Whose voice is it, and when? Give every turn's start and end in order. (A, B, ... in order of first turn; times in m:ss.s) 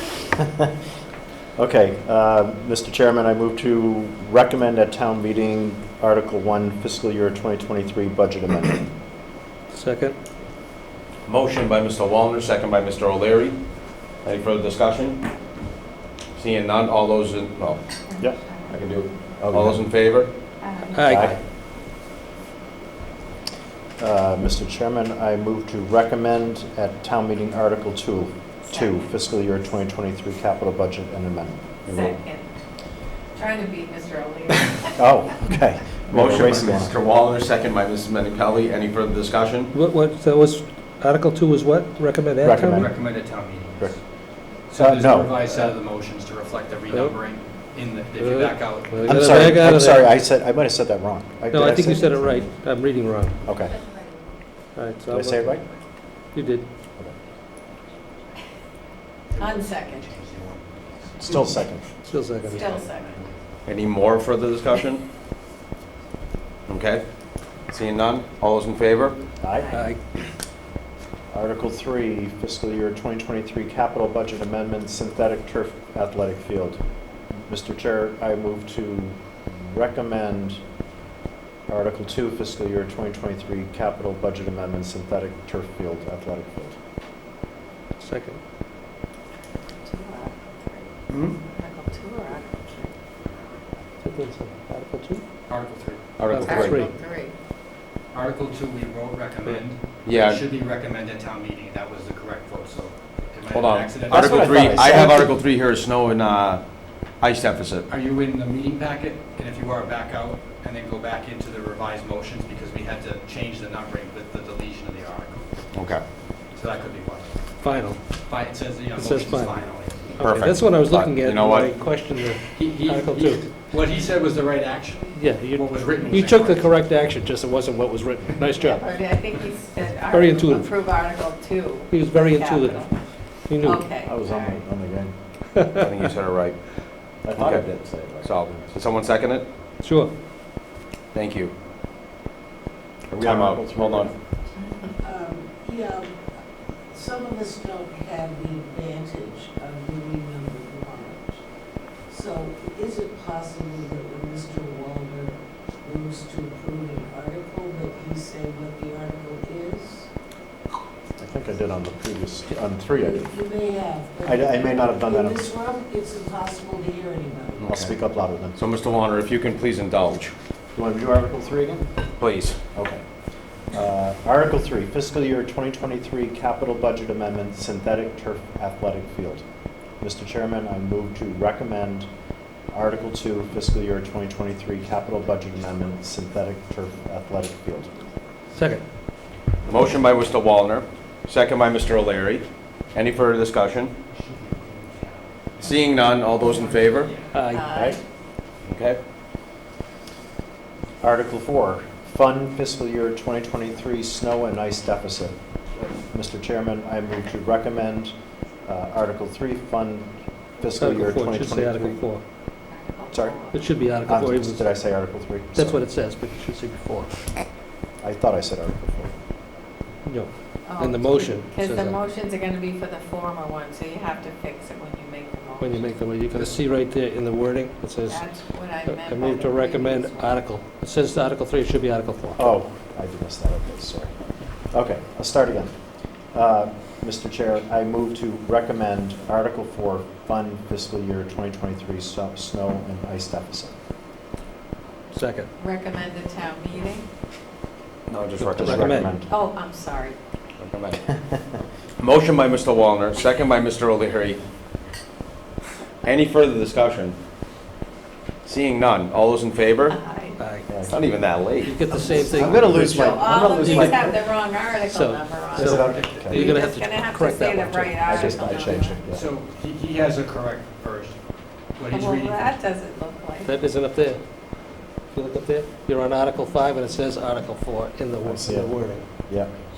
0:01.6-0:08.9 A
0:09.7-0:10.2 B
0:11.2-0:13.6 C
0:14.2-0:15.2 C
0:16.3-0:17.8 C
0:18.2-0:18.6 A
0:18.6-0:21.2 C
0:19.4-0:19.8 A
0:20.6-0:21.0 D
0:20.9-0:21.3 B
0:21.1-0:21.4 A
0:24.0-0:31.6 A
0:28.6-0:29.1 D
0:31.8-0:32.2 C
0:31.9-0:32.4 D
0:33.3-0:35.0 D
0:35.0-0:36.9 A
0:36.1-0:39.7 C
0:39.7-0:42.9 B
0:42.4-0:43.0 A
0:42.7-0:44.0 E
0:44.7-0:49.6 E
0:44.8-0:45.6 A
0:46.9-0:47.2 B
0:48.2-0:50.1 B
0:49.0-0:52.4 A
0:51.5-0:53.4 B
0:53.4-0:53.7 A
0:54.7-0:55.6 B
0:55.1-0:55.6 A
0:56.3-0:56.6 B
0:59.3-1:01.6 E
0:59.4-1:00.0 D
1:01.2-1:01.8 A
1:02.1-1:02.6 B
1:02.3-1:03.6 E
1:02.6-1:03.1 D
1:03.6-1:05.0 C
1:06.7-1:07.0 C
1:07.7-1:09.2 C
1:09.4-1:09.7 A
1:09.7-1:10.0 B
1:11.3-1:16.8 A
1:17.3-1:20.6 A
1:21.7-1:26.8 A
1:28.0-1:28.4 B
1:29.8-1:30.9 D
1:30.1-1:30.6 C
1:31.1-1:32.9 C
1:31.6-1:32.9 D
1:34.0-1:35.2 B
1:35.5-1:36.0 E
1:36.2-1:37.2 C
1:36.3-1:36.9 B
1:36.5-1:37.3 D
1:38.1-1:45.2 E
1:40.0-1:40.4 C
1:43.5-1:46.6 C
1:44.1-1:45.4 A
1:47.2-1:47.8 C
1:47.9-1:55.6 E
1:55.7-1:56.0 C
1:56.5-1:57.3 E
1:57.6-1:58.0 B
1:58.2-2:00.3 E
1:58.9-1:59.6 B
2:00.2-2:03.4 B
2:00.2-2:01.7 C
2:02.5-2:06.7 E
2:05.1-2:09.0 B
2:08.6-2:12.9 D
2:10.1-2:10.7 B
2:11.9-2:13.9 B
2:13.6-2:14.6 D
2:14.0-2:15.6 A
2:15.7-2:16.8 C
2:17.2-2:18.7 A
2:17.3-2:17.7 C
2:18.2-2:19.4 C
2:19.8-2:20.1 B
2:21.1-2:21.5 C
2:23.1-2:24.1 C
2:23.2-2:24.1 A
2:25.0-2:26.1 F
2:26.9-2:31.4 F
2:32.1-2:40.1 F
2:41.2-2:43.2 A
2:43.0-2:47.7 F
2:44.2-2:45.5 A
2:47.6-2:47.9 C
2:47.7-2:48.5 A
2:48.6-2:50.3 C
2:50.7-2:51.9 A
2:52.2-2:52.6 C
2:52.7-2:53.0 A
2:53.7-2:59.4 A
3:00.0-3:02.1 A
3:02.7-3:08.0 A
3:08.5-3:08.8 B
3:09.6-3:13.9 C
3:14.1-3:17.3 E
3:15.6-3:17.1 C
3:17.3-3:17.9 B
3:17.5-3:17.9 D
3:18.7-3:19.0 C
3:21.0-3:32.0 A
3:30.8-3:32.2 B
3:32.7-3:33.6 D
3:33.1-3:33.4 A
3:33.5-3:34.7 B
3:33.9-3:35.8 A
3:35.5-3:37.3 B
3:38.0-3:39.2 A
3:40.0-3:42.0 B
3:40.6-3:45.9 D
3:45.6-3:52.5 B
3:48.1-3:50.4 D
3:52.4-3:54.1 A
3:54.7-3:55.7 A
3:56.3-4:03.7 A
4:05.1-4:05.5 B
4:05.6-4:07.1 D
4:08.1-4:08.8 C
4:08.4-4:09.2 B
4:08.6-4:09.3 A
4:09.3-4:10.2 D
4:10.6-4:11.0 C
4:12.0-4:14.4 C
4:16.0-4:17.2 C
4:18.4-4:20.0 C
4:19.9-4:20.4 D
4:20.4-4:20.7 B
4:20.7-4:21.0 A
4:20.9-4:21.8 C
4:21.6-4:22.9 E
4:21.6-4:28.4 B
4:22.0-4:24.2 A
4:23.1-4:25.7 D
4:25.5-4:26.5 A
4:26.3-4:29.0 D
4:28.0-4:29.3 A
4:29.1-4:31.2 E
4:31.7-4:32.5 E
4:31.9-4:33.5 D
4:33.4-4:34.2 B
4:35.1-4:39.0 B
4:38.2-4:39.5 A